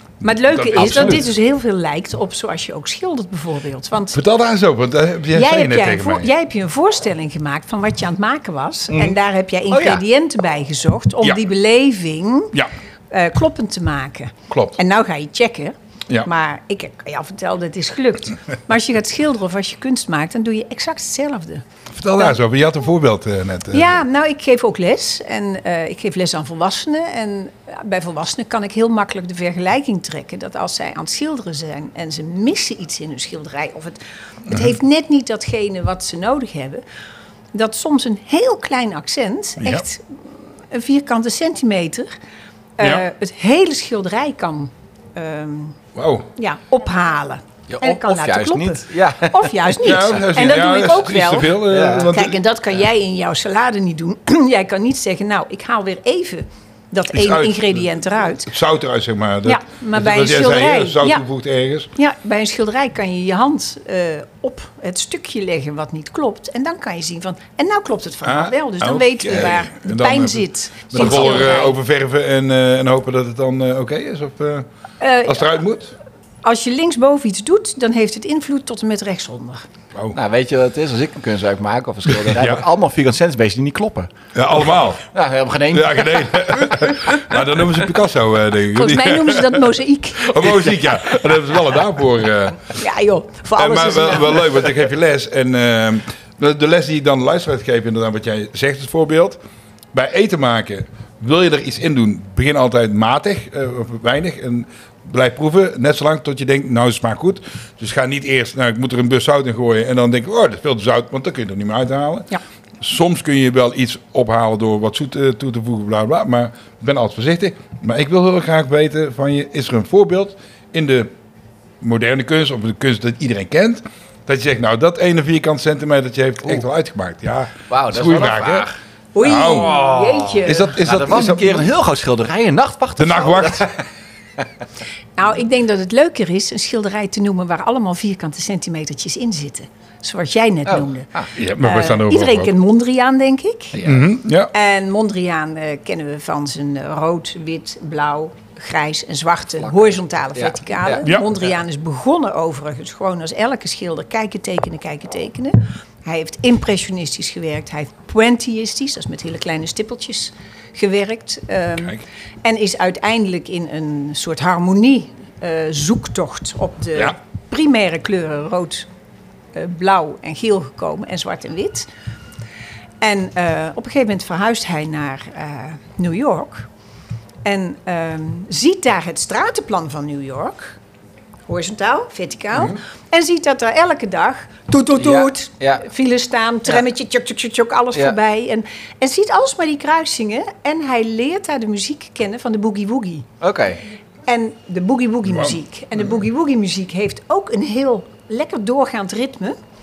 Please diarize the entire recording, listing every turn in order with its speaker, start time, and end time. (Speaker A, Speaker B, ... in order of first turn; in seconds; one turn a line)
Speaker A: 0.2-4.2
Speaker B: 0.3-1.3
Speaker C: 0.8-1.2
Speaker B: 4.1-6.3
Speaker A: 5.3-21.6
Speaker B: 8.9-9.2
Speaker C: 9.7-10.0
Speaker B: 14.5-14.8
Speaker B: 21.9-24.0
Speaker A: 23.7-36.8
Speaker A: 37.5-42.1
Speaker A: 42.8-45.8
Speaker B: 46.0-46.3
Speaker A: 46.4-58.5
Speaker C: 47.7-50.0
Speaker B: 49.8-52.4
Speaker C: 51.6-52.1
Speaker B: 57.1-57.9
Speaker B: 58.5-61.9
Speaker A: 59.5-61.2
Speaker A: 62.0-71.8
Speaker B: 68.2-74.7
Speaker C: 71.0-71.6
Speaker A: 75.0-75.6
Speaker B: 75.2-76.0
Speaker A: 76.4-79.7
Speaker C: 80.1-84.1
Speaker B: 82.2-82.6
Speaker B: 84.3-85.1
Speaker C: 85.1-87.0
Speaker B: 85.7-92.8
Speaker A: 88.7-90.5
Speaker A: 92.8-94.5
Speaker B: 93.6-99.4
Speaker B: 99.9-121.1
Speaker B: 121.8-128.7
Speaker C: 127.7-128.8
Speaker A: 129.1-130.8
Speaker B: 129.2-131.7
Speaker C: 129.4-133.9
Speaker B: 133.0-133.7
Speaker A: 135.2-143.8
Speaker C: 140.7-141.3
Speaker B: 141.4-142.5
Speaker C: 143.7-144.1
Speaker B: 143.8-144.5
Speaker A: 144.5-168.9
Speaker C: 149.6-151.1
Speaker A: 169.5-171.9
Speaker A: 173.0-176.7
Speaker A: 177.4-180.8
Speaker A: 181.5-193.3
Speaker C: 185.0-185.8
Speaker C: 193.4-193.8
Speaker A: 194.2-199.6
Speaker B: 195.3-195.6